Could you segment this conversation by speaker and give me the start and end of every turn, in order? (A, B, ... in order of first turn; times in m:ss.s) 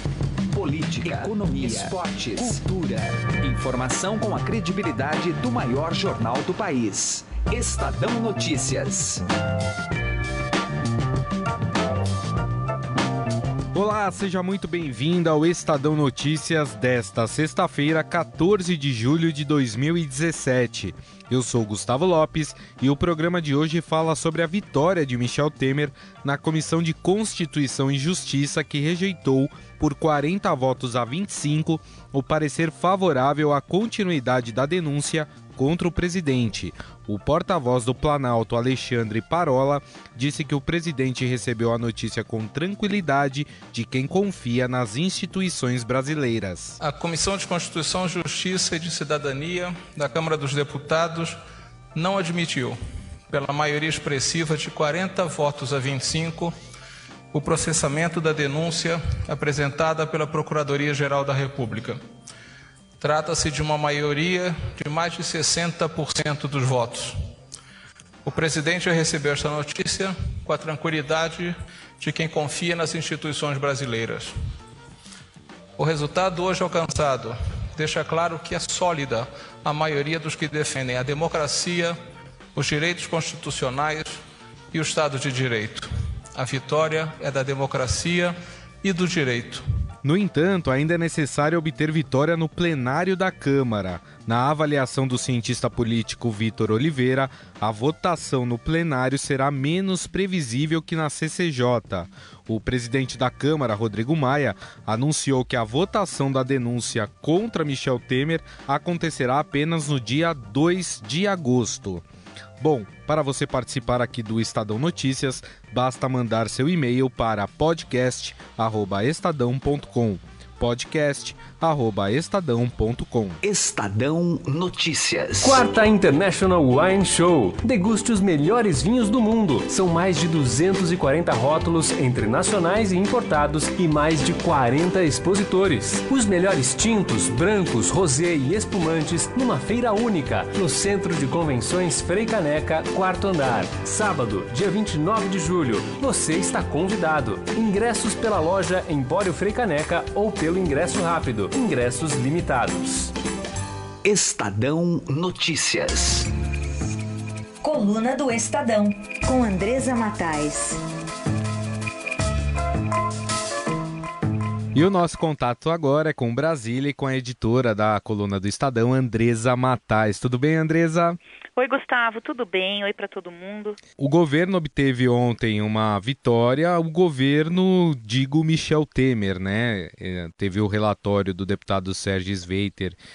0:00.5-0:09.2 A
0:13.7-0:46.8 B
0:46.8-0:51.4 C
0:51.9-0:52.8 C
0:53.3-0:56.6 C
0:57.3-1:02.0 C
1:03.0-1:07.2 C
1:08.2-1:14.4 C
1:15.8-1:22.0 C
1:22.5-1:24.2 C
1:24.7-1:29.6 C
1:30.0-1:52.1 B
1:52.6-2:03.4 B
2:03.4-2:05.6 A
2:05.4-2:33.1 D
2:34.0-2:36.3 A
2:37.6-2:40.8 E
2:44.7-2:51.2 B
2:51.6-2:53.8 F
2:54.0-3:03.0 B